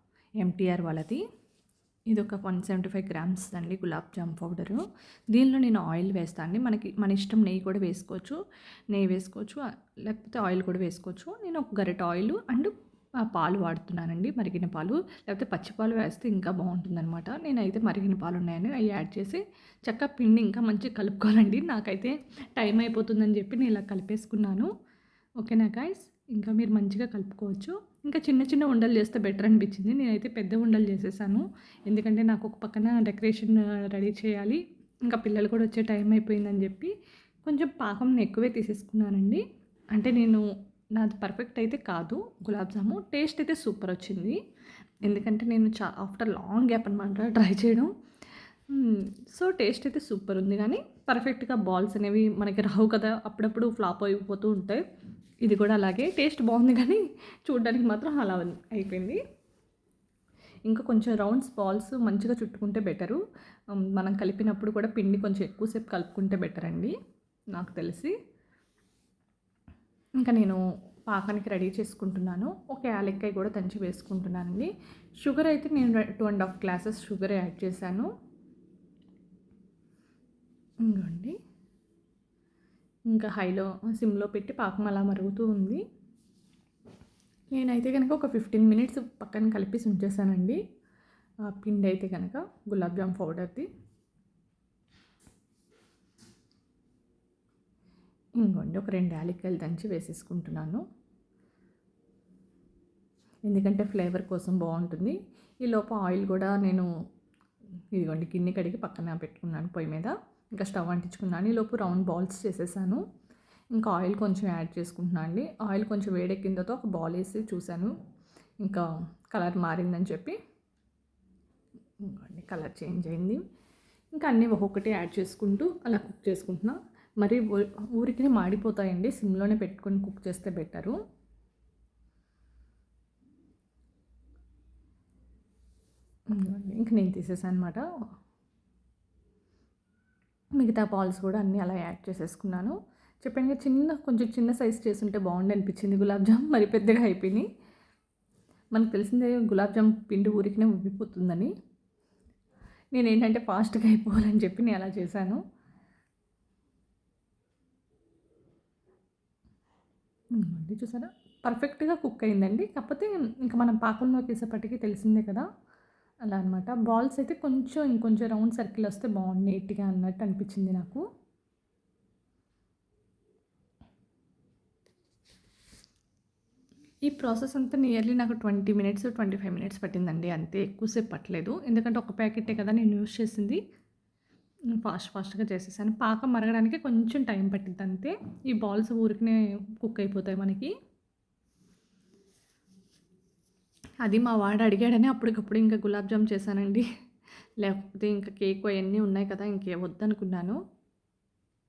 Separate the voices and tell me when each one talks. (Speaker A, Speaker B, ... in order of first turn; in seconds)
Speaker A: 0.4-1.2, 2.1-4.8, 5.3-8.4, 8.9-12.7, 13.3-24.7, 25.4-36.9, 37.5-39.4, 39.9-40.4, 41.0-44.4, 45.0-47.9, 48.7-54.8, 55.5-59.2, 60.7-63.2, 63.9-66.9, 67.5-68.1, 70.2-74.7, 75.2-78.1, 80.8-81.4, 83.1-85.8, 87.5-90.6, 91.4-93.7, 98.4-100.8, 103.5-106.9, 107.9-113.0, 113.7-117.9, 118.6-120.4, 122.0-123.4, 124.1-130.9, 136.3-137.8, 140.6-147.5, 148.7-151.5, 152.9-155.4, 160.4-165.5, 166.3-171.0, 177.1-183.6, 184.7-190.7, 194.0-196.8, 197.6-200.6